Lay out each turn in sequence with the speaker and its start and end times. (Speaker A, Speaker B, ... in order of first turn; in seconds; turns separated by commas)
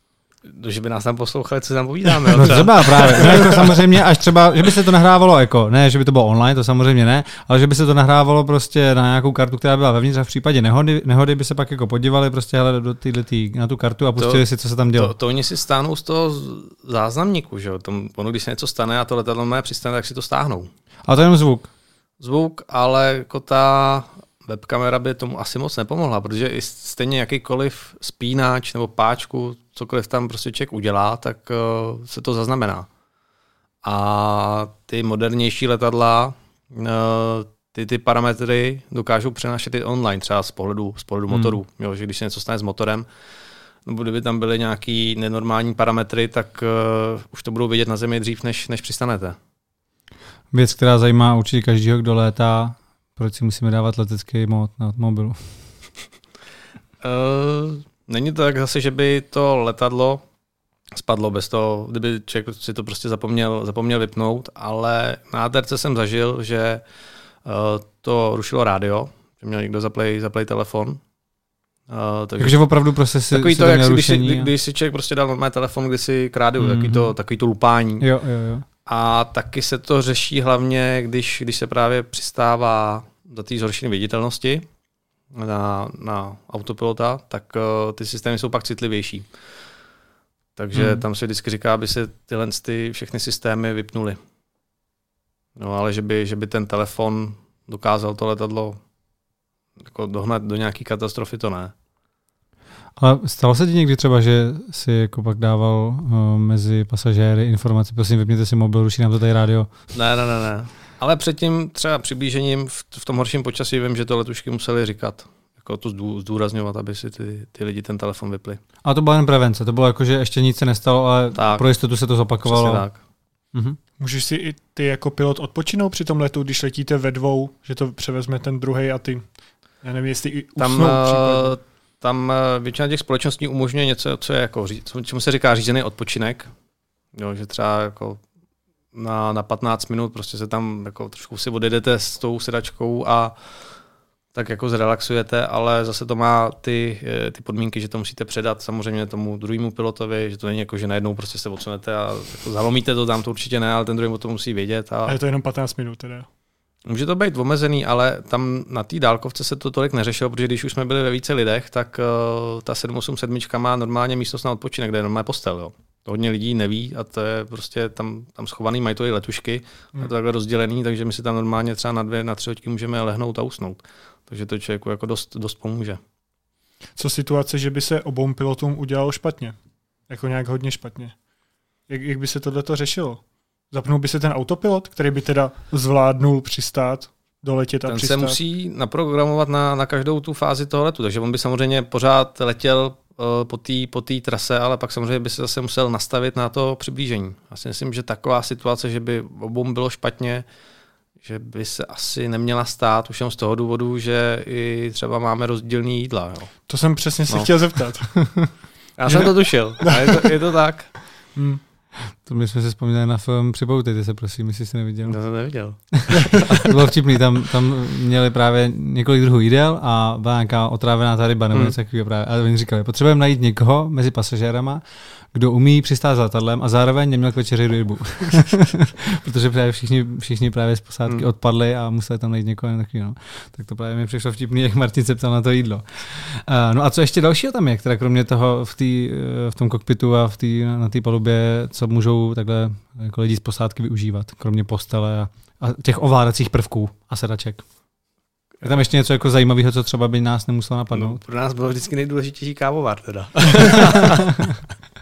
Speaker A: 0.4-3.8, Speaker B: 2.3-15.1, Speaker A: 14.2-20.7, Speaker B: 21.1-21.7, Speaker A: 22.2-32.9, Speaker A: 33.8-43.0, Speaker B: 41.3-41.5, Speaker A: 43.9-49.4, Speaker B: 50.5-55.4, Speaker A: 57.0-60.2, Speaker A: 60.9-66.8, Speaker A: 67.4-71.0, Speaker A: 71.9-72.6, Speaker B: 72.4-74.5, Speaker A: 73.3-78.0, Speaker B: 76.6-77.1, Speaker B: 78.0-78.7, Speaker A: 78.8-84.7, Speaker A: 85.3-89.3, Speaker A: 90.5-94.2, Speaker B: 90.7-91.0, Speaker A: 95.5-98.8, Speaker A: 99.8-101.7, Speaker B: 103.0-109.7, Speaker A: 109.9-118.6, Speaker B: 118.8-122.8, Speaker A: 121.3-121.6, Speaker A: 122.4-123.0, Speaker C: 124.0-129.3, Speaker C: 129.8-131.6, Speaker A: 130.6-136.5, Speaker A: 137.1-138.2, Speaker A: 138.9-143.3, Speaker A: 144.3-155.2, Speaker C: 155.1-156.3, Speaker A: 156.8-176.0, Speaker C: 176.9-179.6, Speaker C: 180.1-181.2, Speaker C: 181.9-188.4, Speaker A: 187.8-200.4, Speaker A: 201.2-206.5, Speaker C: 206.7-208.1, Speaker B: 208.2-208.5, Speaker A: 209.0-210.9, Speaker C: 209.8-210.2, Speaker C: 211.3-211.6, Speaker B: 212.1-215.2, Speaker A: 215.1-216.7, Speaker B: 215.9-247.6, Speaker B: 248.6-251.2, Speaker A: 250.9-254.5, Speaker B: 253.8-254.2